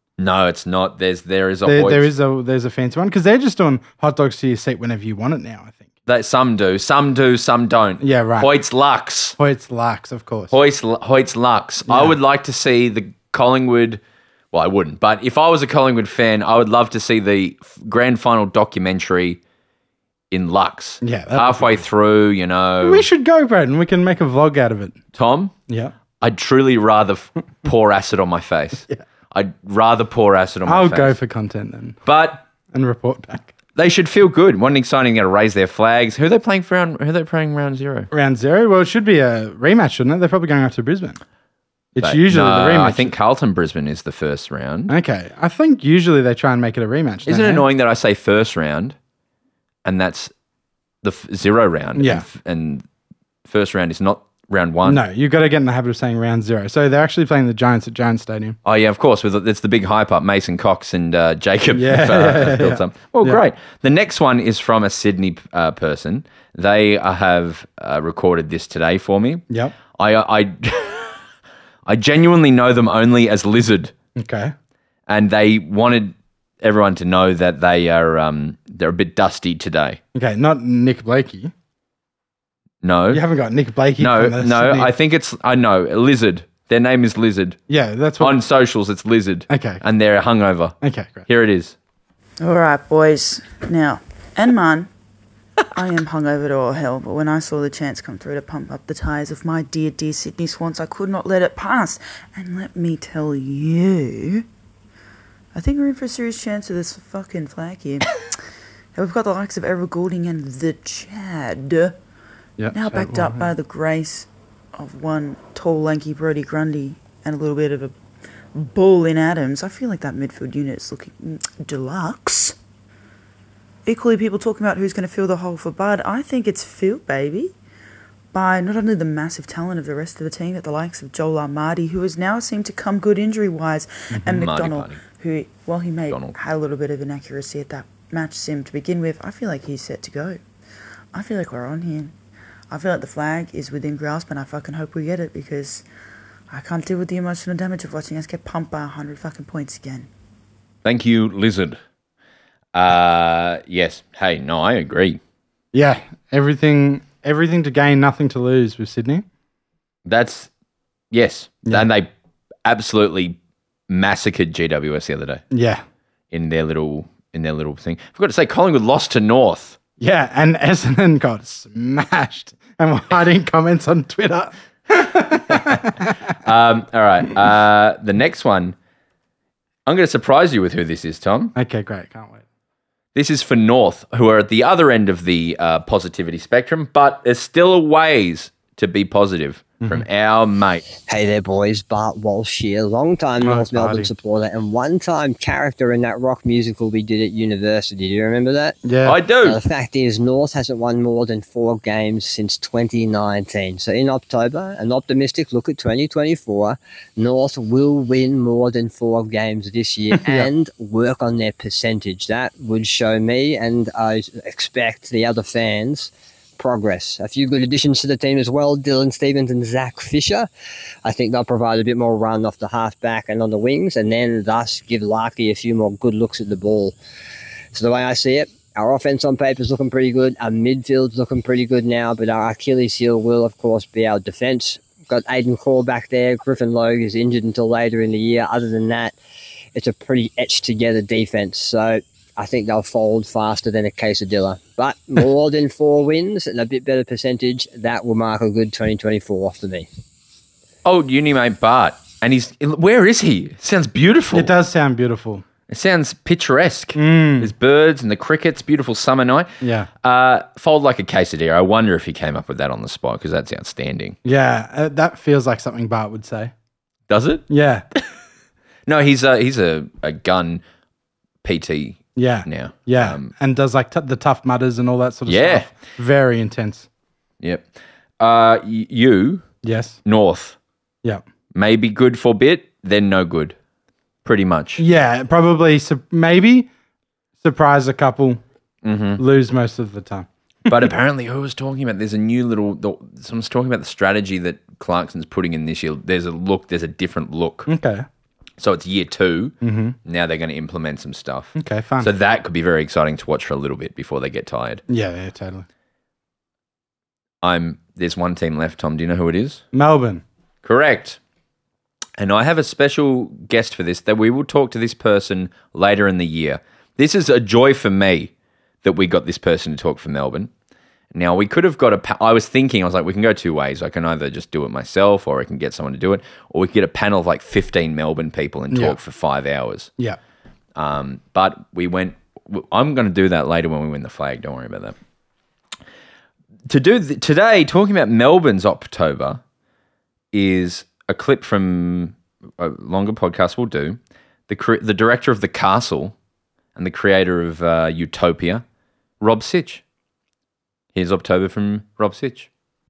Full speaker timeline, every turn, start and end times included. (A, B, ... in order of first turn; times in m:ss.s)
0:00.2-0:02.1 A
0:01.6-0:05.9 B
0:06.0-0:09.4 A
0:08.0-0:08.5 B
0:09.4-0:10.5 B
0:10.5-0:14.0 A
0:11.9-0:12.1 B
0:14.5-0:19.4 A
0:20.3-0:23.0 A
0:21.0-0:21.8 B
0:22.8-0:25.0 B
0:25.1-0:25.5 A
0:25.7-0:25.9 B
0:26.2-0:31.2 A
0:30.6-0:32.0 B
0:32.0-0:32.4 A
0:32.7-0:33.5 B
0:33.7-0:38.1 A
0:38.1-0:41.2 B
0:41.9-0:43.1 B
0:42.0-0:44.9 A
0:44.9-0:47.6 B
0:47.2-0:49.0 A
0:49.8-0:50.3 A
0:51.0-0:52.8 A
0:51.9-0:52.2 B
0:53.4-0:55.0 A
0:54.8-0:58.6 B
0:58.6-1:11.2 A
1:01.7-1:03.4 B
1:09.5-1:09.7 B
1:11.8-1:13.9 A
1:14.2-1:14.5 B
1:15.1-1:20.0 A
1:20.1-1:21.5 B
1:22.8-1:23.2 A
1:23.1-1:24.9 B
1:24.0-1:27.6 A
1:27.7-1:28.4 B
1:28.2-1:31.8 A
1:29.5-1:29.8 B
1:30.8-1:31.3 B
1:32.4-1:34.9 C
1:35.7-1:44.4 C
1:45.5-1:48.2 C
1:48.9-1:52.0 C
1:52.6-1:53.5 B
1:52.7-1:57.9 C
1:58.5-2:02.6 C
2:03.8-2:07.5 C
2:08.3-2:20.4 C
2:14.1-2:14.4 B
2:14.3-2:15.0 A
2:16.1-2:16.4 A
2:21.1-2:22.1 C
2:22.7-2:25.8 C
2:26.5-2:30.1 C
2:30.8-2:31.8 A
2:32.7-2:35.2 A
2:35.7-2:39.2 B
2:40.0-2:40.5 A
2:41.1-2:42.1 A
2:42.6-2:43.4 A
2:43.9-2:45.4 A
2:45.5-2:45.8 B
2:46.3-2:49.8 A
2:50.0-2:56.1 B
2:56.4-2:58.8 A
2:59.8-3:01.5 A
3:01.5-3:02.4 B
3:03.1-3:10.8 A
3:11.0-3:18.8 D
3:13.4-3:14.1 B
3:18.8-3:19.2 B
3:19.0-3:19.6 A
3:19.4-3:40.5 D
3:41.0-3:47.0 D
3:47.7-3:59.2 D
3:59.7-4:09.9 D
4:10.8-4:14.5 A
4:14.3-4:15.4 B
4:15.7-4:24.2 A
4:16.9-4:17.5 B
4:19.6-4:19.9 B
4:24.2-4:26.5 B
4:27.1-4:27.4 A
4:27.5-4:27.8 B
4:28.9-4:30.6 A
4:31.4-4:33.3 A
4:32.2-4:36.9 B
4:35.3-4:35.7 A
4:37.4-4:37.7 A
4:38.2-4:39.5 A
4:39.6-4:40.0 B
4:40.0-4:40.6 A
4:41.5-4:43.6 A
4:44.2-4:44.8 A
4:44.8-4:46.7 B
4:47.4-4:48.4 B
4:48.8-4:49.2 A
4:49.2-4:50.3 B
4:50.7-4:57.7 A
4:57.6-4:58.0 B
4:58.6-5:04.8 A
4:59.6-5:00.0 B
5:01.6-5:02.1 B
5:04.9-5:05.6 B
5:07.4-5:09.6 A
5:09.7-5:10.2 B
5:10.6-5:11.2 A
5:12.2-5:18.3 A
5:18.8-5:20.5 A
5:21.1-5:29.9 A
5:28.7-5:29.0 B
5:30.8-5:35.0 A
5:36.7-5:39.4 A
5:40.3-5:46.1 A
5:46.8-5:48.6 A
5:49.2-5:49.8 A
5:50.9-5:52.5 A